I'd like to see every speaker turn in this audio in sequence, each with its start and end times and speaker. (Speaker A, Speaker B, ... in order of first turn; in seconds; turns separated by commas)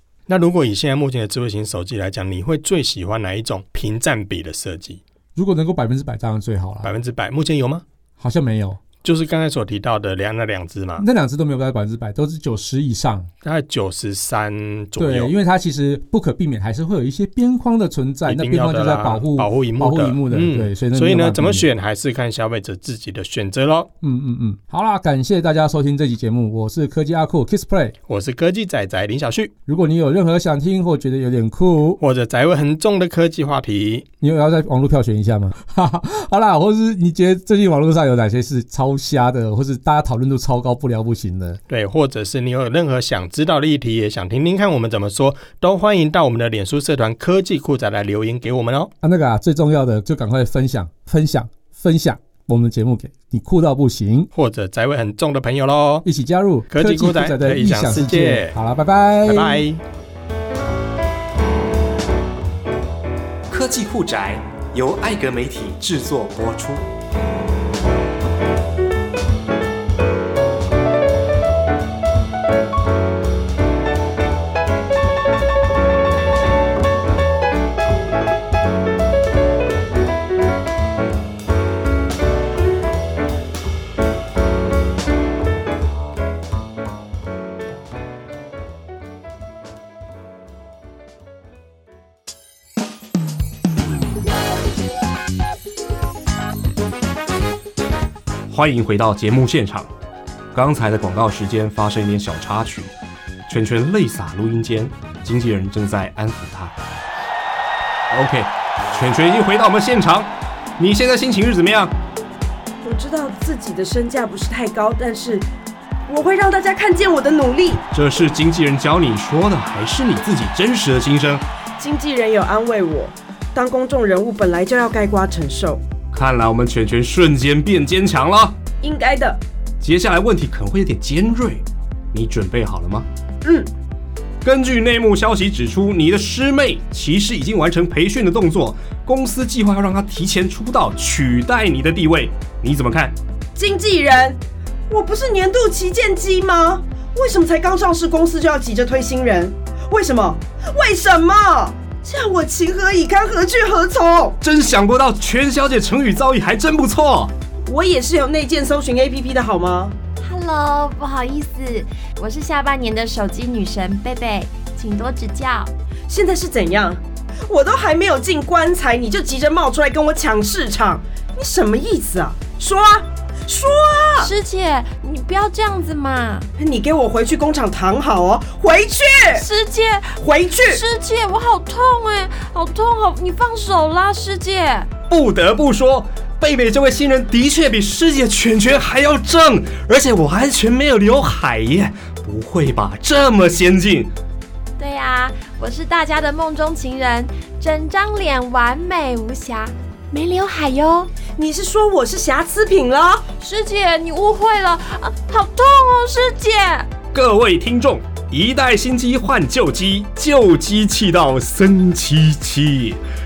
Speaker A: 0.3-5.0, Speaker B: 5.3-6.9, Speaker A: 6.8-7.8, Speaker B: 8.2-8.8, Speaker A: 9.0-11.0, Speaker B: 11.0-13.3, Speaker A: 13.4-15.3, Speaker B: 15.0-21.7, Speaker A: 18.3-23.9, Speaker B: 24.0-27.9, Speaker A: 28.1-29.5, Speaker B: 29.7-32.0, Speaker A: 32.0-34.0, Speaker B: 34.2-41.6, Speaker A: 41.7-48.9, Speaker B: 49.0-54.3, Speaker A: 54.3-56.0, Speaker B: 56.0-59.6, Speaker A: 56.7-58.6, Speaker A: 59.2-59.8, Speaker C: 63.5-66.8, Speaker C: 98.5-99.9, Speaker C: 100.5-102.9, Speaker C: 103.5-106.8, Speaker C: 108.1-111.9, Speaker D: 112.8-115.5, Speaker D: 116.1-117.8, Speaker C: 117.9-121.4, Speaker D: 121.8-125.8, Speaker C: 126.1-128.6, Speaker D: 128.8-129.4, Speaker C: 129.8-133.1, Speaker D: 133.4-133.7, Speaker C: 134.4-143.2, Speaker D: 143.6-144.4, Speaker D: 144.9-154.4, Speaker C: 154.4-157.3, Speaker D: 157.7-160.0, Speaker E: 160.2-165.7, Speaker D: 166.1-174.3, Speaker E: 174.2-176.5, Speaker D: 176.6-179.5, Speaker E: 179.3-184.9, Speaker D: 180.2-180.8, Speaker C: 185.1-194.1, Speaker E: 194.8-201.1, Speaker D: 201.3-203.3, Speaker E: 203.4-206.9, Speaker C: 207.1-213.0